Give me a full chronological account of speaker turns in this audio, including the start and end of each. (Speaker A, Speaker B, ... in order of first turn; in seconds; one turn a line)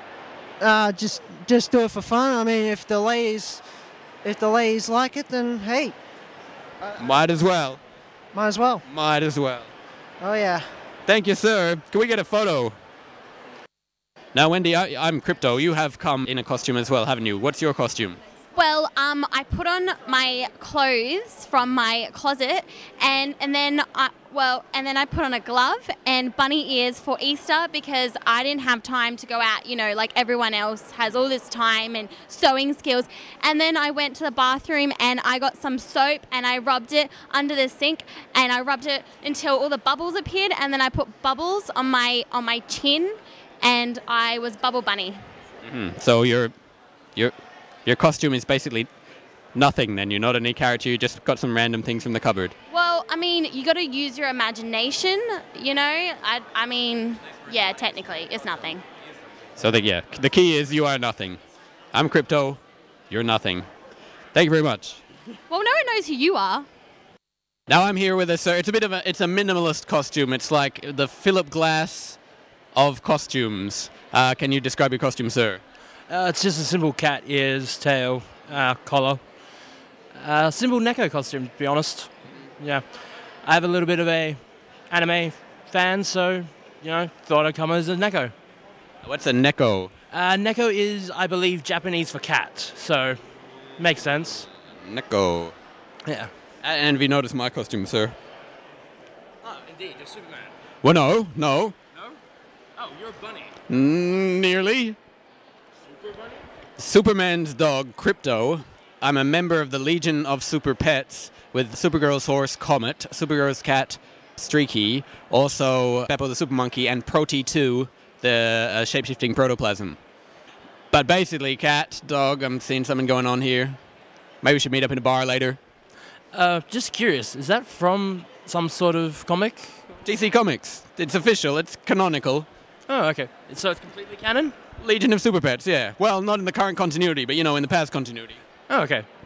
Speaker A: 0.6-3.6
Speaker A: 4.2-5.9
Speaker B: 7.0-7.8
Speaker A: 8.3-8.8
Speaker B: 8.9-9.7
Speaker A: 10.2-10.7
Speaker B: 11.1-12.7
Speaker B: 14.3-18.2
Speaker C: 18.6-45.2
Speaker B: 45.6-46.5
Speaker B: 47.9-48.9
Speaker B: 49.5-52.5
Speaker C: 52.7-58.8
Speaker B: 59.6-61.4
Speaker B: 61.9-63.7
Speaker B: 64.3-65.0
Speaker C: 65.5-66.7
Speaker B: 67.7-72.2
Speaker B: 72.7-75.6
Speaker D: 76.1-79.2
Speaker D: 80.1-82.8
Speaker D: 83.4-84.4
Speaker D: 84.9-88.3
Speaker B: 89.0-89.9
Speaker D: 90.1-93.2
Speaker D: 93.8-94.5
Speaker B: 94.8-95.5
Speaker B: 96.6-98.2
Speaker D: 99.4-100.5
Speaker B: 100.8-101.8
Speaker D: 102.8-103.5
Speaker B: 103.7-105.0
Speaker B: 106.8-120.0
Speaker B: 120.9-123.8
Speaker B: 124.4-125.6
Speaker D: 126.3-129.8
Speaker B: 130.0-132.5
Speaker D: 132.9-134.6
Speaker B: 134.8-138.4
Speaker D: 138.7-139.1